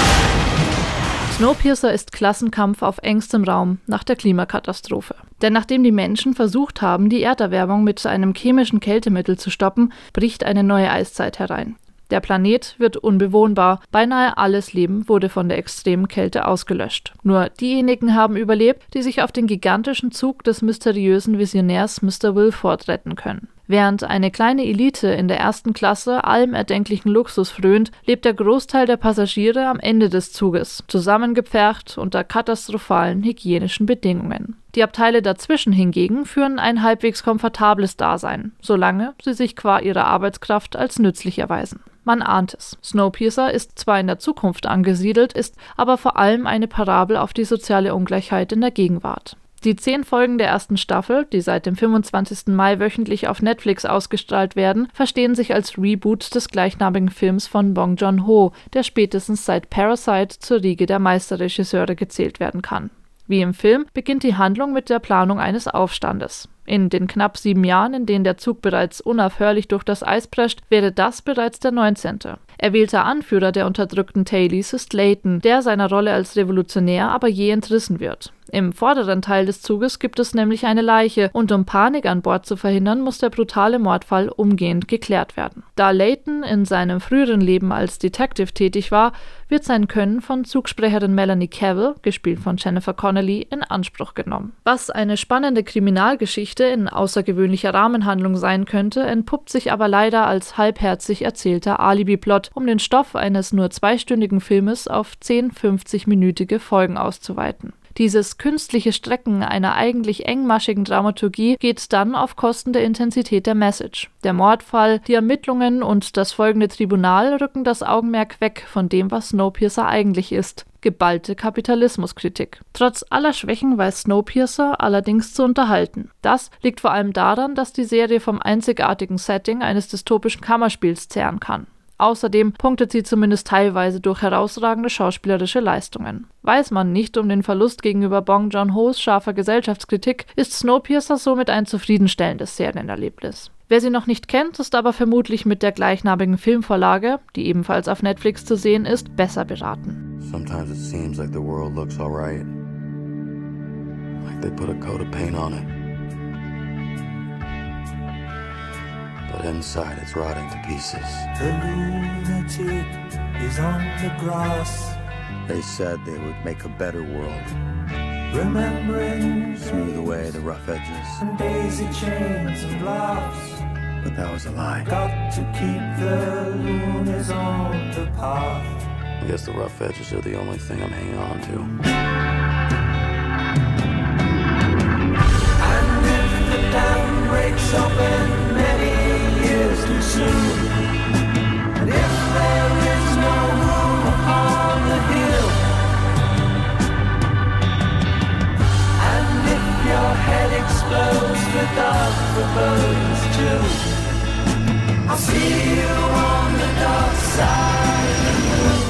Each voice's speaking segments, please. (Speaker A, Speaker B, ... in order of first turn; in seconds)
Speaker A: 1.3-150.0
Speaker B: 150.2-152.5, 154.2-155.7, 159.3-161.3, 165.5-167.6, 169.6-171.2, 174.1-174.9, 179.2-181.7
Speaker C: 161.3-165.0, 168.3-169.8, 171.2-173.6, 174.8-178.7, 185.6-190.6, 191.8-195.6, 199.0-203.8, 205.1-207.8